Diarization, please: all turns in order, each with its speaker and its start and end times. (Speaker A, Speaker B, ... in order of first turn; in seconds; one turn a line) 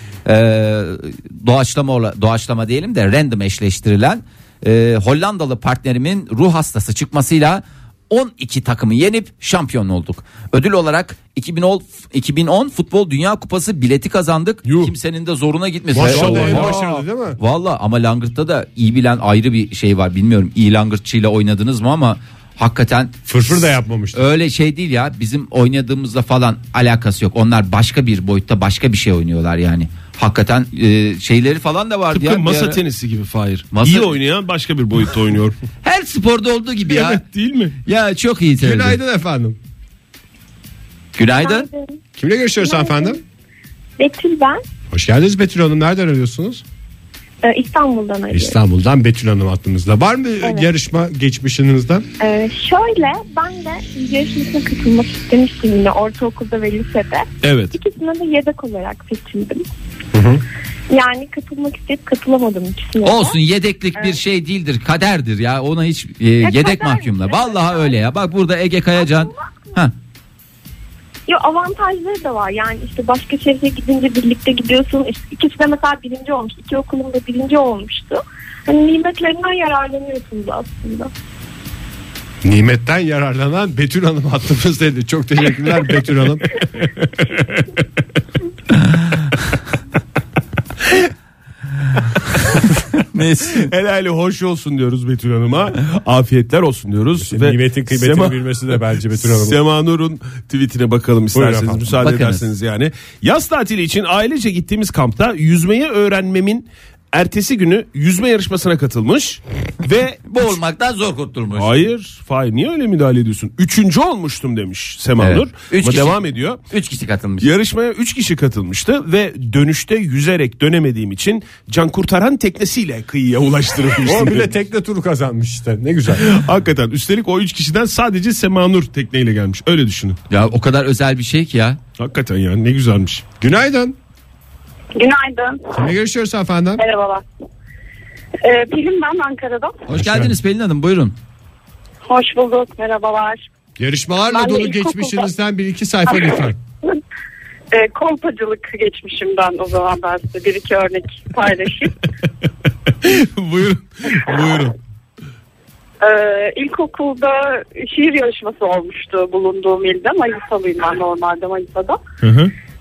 Speaker A: 0.2-16.8
Speaker B: 14.7-14.9
Speaker B: 15.9-17.4
Speaker C: 16.0-16.9
Speaker A: 17.4-32.8
Speaker B: 23.3-24.3
Speaker C: 32.1-35.5
Speaker A: 33.7-34.1
Speaker A: 35.8-37.2
Speaker C: 36.9-37.8
Speaker A: 37.8-39.0
Speaker B: 38.6-39.6
Speaker A: 41.2-41.7
Speaker D: 41.4-42.0
Speaker B: 42.2-43.2
Speaker D: 42.6-43.2
Speaker D: 44.0-44.6
Speaker B: 44.9-46.6
Speaker D: 47.4-48.6
Speaker B: 48.3-52.1
Speaker D: 50.4-50.7
Speaker D: 52.2-59.7
Speaker C: 57.4-57.8
Speaker B: 60.1-60.4
Speaker D: 60.9-63.4
Speaker A: 63.0-69.9
Speaker D: 66.4-68.0
Speaker D: 69.0-69.3
Speaker D: 71.3-81.1
Speaker B: 82.4-86.5
Speaker A: 93.0-93.7
Speaker C: 93.5-110.3
Speaker B: 97.2-99.6
Speaker B: 101.3-101.9
Speaker A: 102.0-102.5
Speaker A: 110.3-111.8
Speaker C: 111.5-116.6
Speaker A: 115.2-117.5
Speaker C: 117.4-124.5
Speaker B: 124.0-126.3
Speaker C: 126.2-130.2
Speaker A: 130.3-131.8
Speaker C: 132.0-133.2
Speaker B: 133.4-134.0
Speaker E: 135.0-135.8
Speaker B: 135.7-136.8
Speaker E: 136.8-137.2
Speaker E: 138.4-139.8
Speaker A: 139.9-141.2
Speaker B: 139.9-140.3
Speaker E: 142.1-143.4
Speaker B: 143.8-146.6
Speaker E: 144.3-145.3
Speaker E: 146.1-146.5
Speaker E: 147.7-152.1
Speaker C: 153.0-154.8
Speaker E: 156.0-162.0
Speaker C: 162.2-162.5